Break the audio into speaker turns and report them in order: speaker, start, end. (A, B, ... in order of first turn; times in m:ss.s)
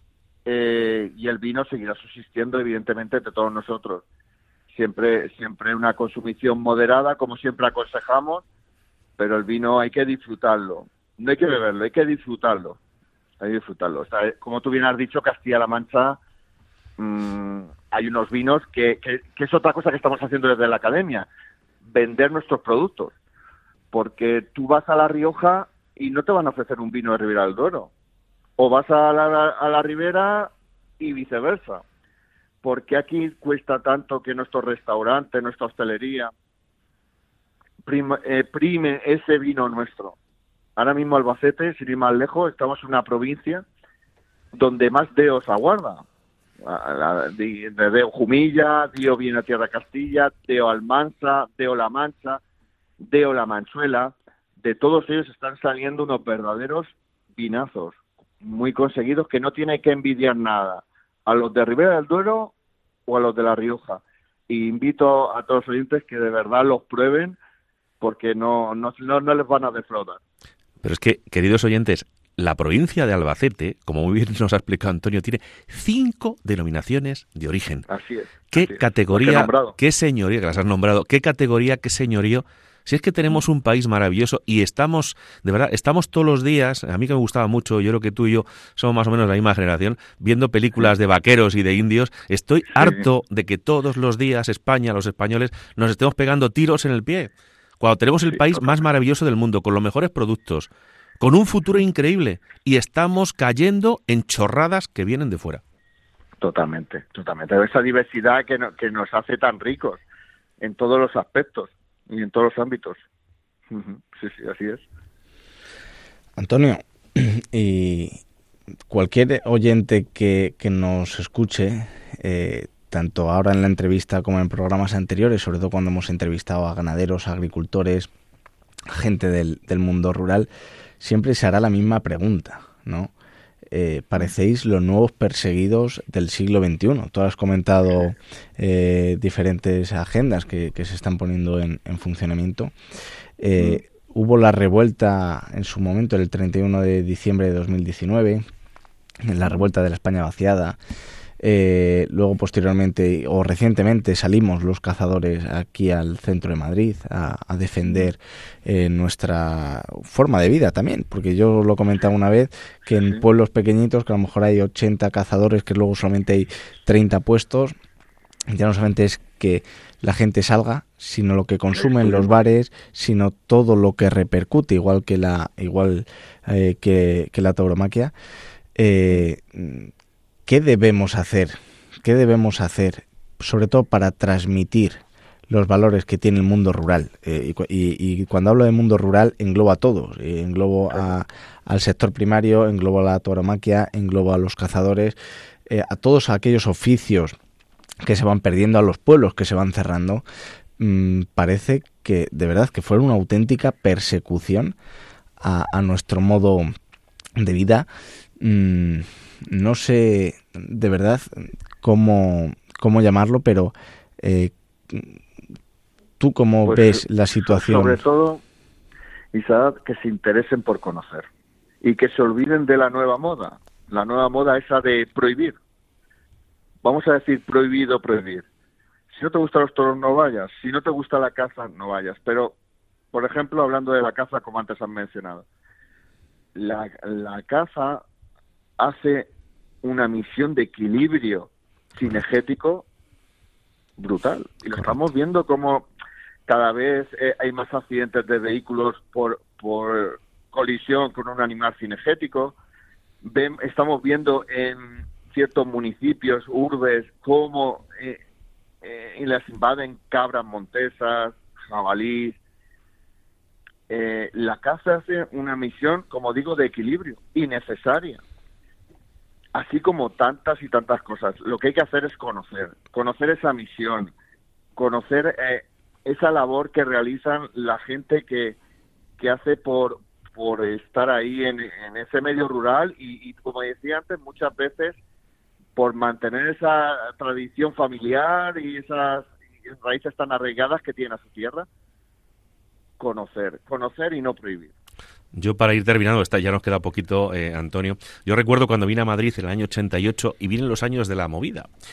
0:00.5-0:04.0 A
0:04.7-0:08.4 A
0:09.2-0:12.8 A
0:13.4-0:16.2 A
0:17.0-0:21.3 A
0:21.9-0:23.1 A
0:23.9-0:27.9 A
0:28.6-0:31.8 A
0:32.6-0:36.3 A
0:37.8-0:40.2 A
0:40.8-0:43.6 A
0:44.5-0:46.0 A
0:46.6-0:52.4 A
0:53.0-1:02.5 A
1:03.1-1:07.4 A
1:08.0-1:10.2 A
1:10.8-1:17.9 B
1:17.9-1:19.8 A
1:18.5-1:40.7 B
1:32.8-1:33.0 A
1:38.3-1:38.7 A
1:41.2-1:45.6 B
1:46.4-1:50.0 A
1:50.6-1:53.0 A
1:53.7-1:54.8 A
1:56.4-1:58.2 C
1:58.9-2:08.1 C
2:08.9-2:10.5 C
2:11.0-2:13.1 C
2:13.7-2:22.7 C
2:23.4-2:28.5 C
2:29.2-2:30.8 C
2:31.4-2:47.8 C
2:43.0-2:43.2 A
2:48.5-2:58.1 C
2:51.8-2:52.4 A
2:58.8-2:59.9 C
3:00.5-3:17.4 C
3:18.0-3:20.2 C
3:20.8-3:24.8 C
3:25.4-3:26.7 C
3:27.4-3:27.9 C
3:28.4-3:35.2 C
3:36.2-3:38.0 C
3:36.7-3:38.4 A
3:39.3-3:41.3 A
3:41.8-3:45.6 A
3:46.8-3:48.5 A
3:49.1-3:52.6 A
3:53.1-3:55.4 A
3:56.6-3:58.0 A
3:58.8-3:59.3 A
3:59.8-4:02.8 A
4:04.0-4:05.9 A
4:06.5-4:12.6 A
4:13.2-4:18.2 A
4:18.8-4:22.4 A
4:23.9-4:28.2 A
4:29.5-4:34.1 A
4:34.8-4:38.6 A
4:39.2-4:45.0 A
4:45.8-4:51.7 A
4:53.0-4:54.7 A
4:55.3-5:01.7 B